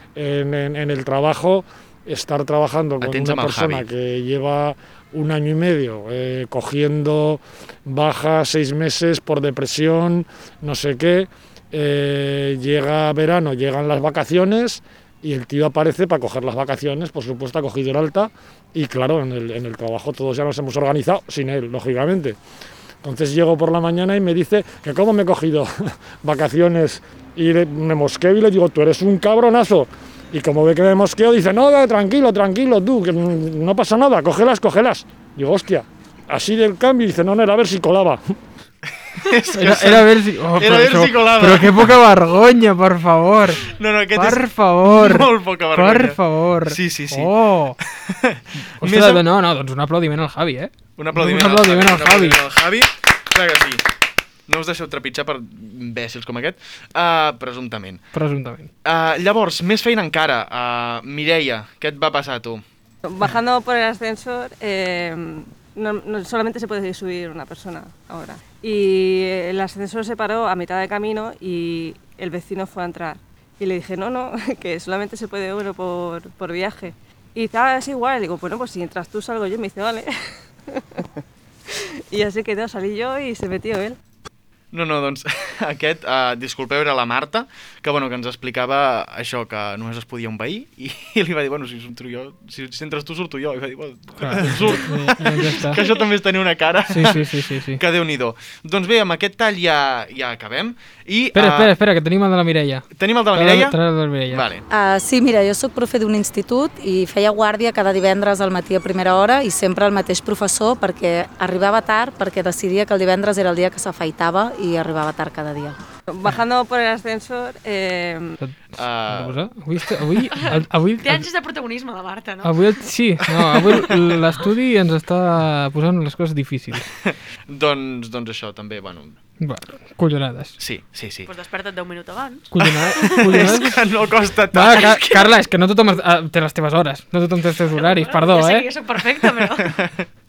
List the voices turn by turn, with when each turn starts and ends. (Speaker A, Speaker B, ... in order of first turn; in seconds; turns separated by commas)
Speaker A: 0.2-22.4, Speaker B: 3.0-3.9, Speaker A: 23.0-38.2, Speaker B: 39.2-42.0, Speaker C: 39.5-47.8, Speaker B: 43.7-47.3, Speaker B: 48.0-49.2, Speaker C: 48.8-52.4, Speaker B: 51.0-53.8, Speaker B: 54.5-58.1, Speaker C: 58.1-58.7, Speaker B: 58.9-62.6, Speaker D: 63.1-80.1, Speaker D: 80.7-81.0, Speaker D: 81.7-84.0, Speaker B: 84.7-101.7, Speaker C: 94.2-95.8, Speaker E: 95.7-96.1, Speaker C: 96.9-97.8, Speaker C: 101.3-104.5, Speaker B: 102.9-103.8, Speaker B: 104.3-104.6, Speaker F: 104.7-115.8, Speaker D: 116.1-118.4, Speaker C: 118.4-121.3, Speaker B: 118.8-119.4, Speaker E: 120.3-122.6, Speaker C: 122.4-126.9, Speaker B: 127.1-129.2, Speaker C: 129.4-130.6, Speaker B: 130.6-131.3, Speaker E: 131.2-133.6, Speaker C: 132.5-133.8, Speaker B: 132.6-134.9, Speaker C: 134.5-138.7, Speaker E: 134.7-135.3, Speaker E: 137.8-139.7, Speaker B: 139.6-140.1